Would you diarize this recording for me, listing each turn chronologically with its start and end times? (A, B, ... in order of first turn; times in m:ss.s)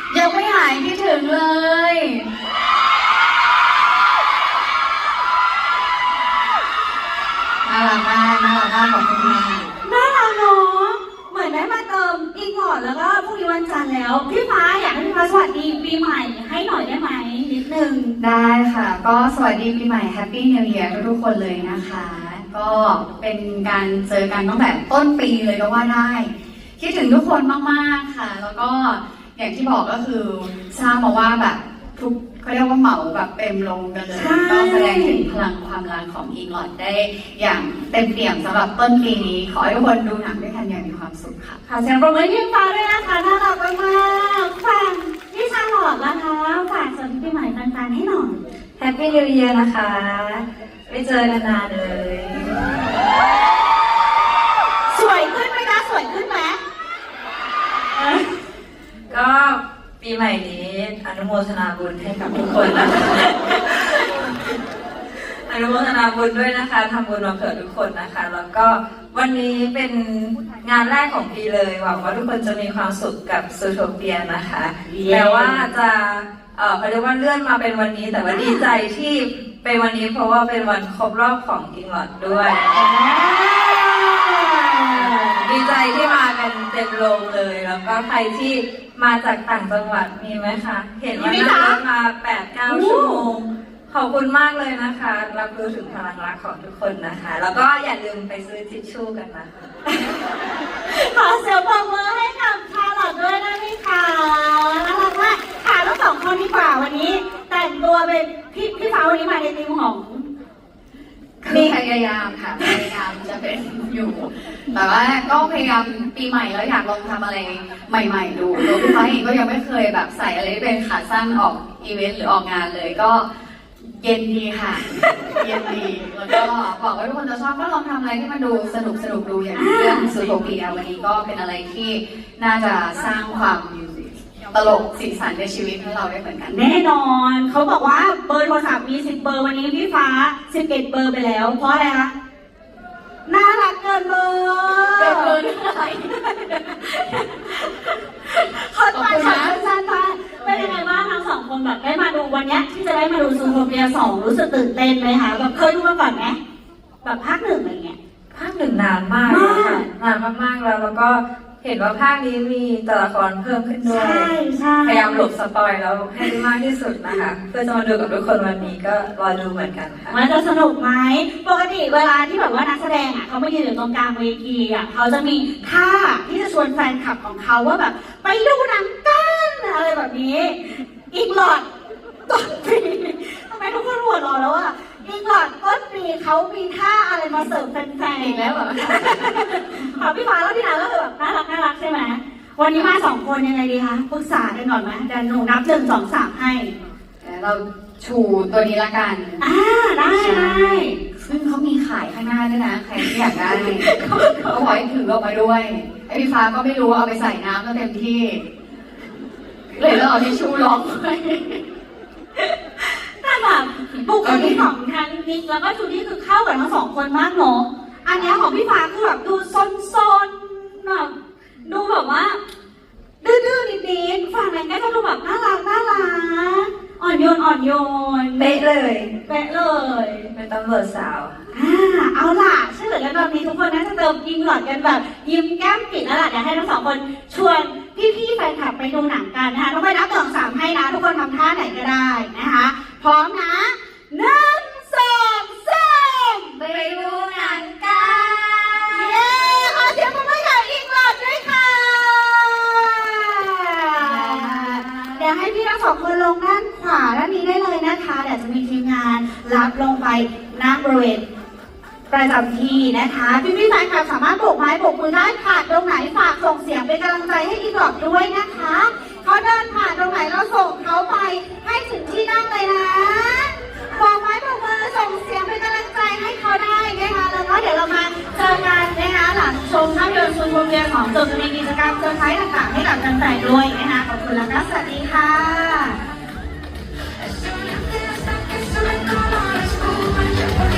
0:00.1-0:02.3 A
0:07.7-0:09.7 A
0:09.8-0:18.2 B
0:18.2-0:41.6 A
0:34.1-0:35.2 B
0:41.7-0:48.4 B
0:48.8-0:52.8 C
0:54.9-0:56.6 B
0:57.9-0:58.3 B
0:59.1-1:04.3 C
1:05.5-1:22.9 C
1:14.9-1:15.6 B
1:18.3-1:18.7 B
1:22.6-1:25.5 B
1:25.0-1:39.7 C
1:31.1-1:31.8 B
1:32.7-1:33.3 B
1:40.8-1:50.3 B
1:51.4-2:03.3 A
1:51.4-1:51.7 B
1:52.6-1:52.9 B
1:58.6-1:59.1 B
2:03.9-2:16.6 A
2:05.0-2:05.6 B
2:09.6-2:10.1 B
2:16.5-2:22.1 B
2:23.3-2:25.4 B
2:24.9-2:26.2 A
2:26.4-2:36.4 B
2:28.9-2:29.6 A
2:37.0-2:38.0 B
2:38.3-2:44.3 C
2:39.2-2:39.8 B
2:43.8-2:45.2 B
2:44.8-2:50.2 C
2:50.1-3:01.7 B
3:02.3-3:16.7 B
3:08.2-3:09.6 A
3:12.7-3:13.0 A
3:17.2-3:19.5 A
3:19.4-3:21.0 B
3:20.1-3:23.9 A
3:23.0-3:24.8 B
3:24.5-3:28.4 A
3:29.7-3:31.6 A
3:32.4-3:42.4 B
3:34.2-3:34.6 A
3:43.2-3:48.6 B
3:48.4-3:49.1 C
3:49.2-3:50.3 B
3:50.3-3:51.3 C
3:51.5-4:08.4 B
4:06.7-4:09.1 C
4:08.9-4:21.2 B
4:14.1-4:15.2 A
4:22.1-4:46.0 B
4:47.8-4:50.5 C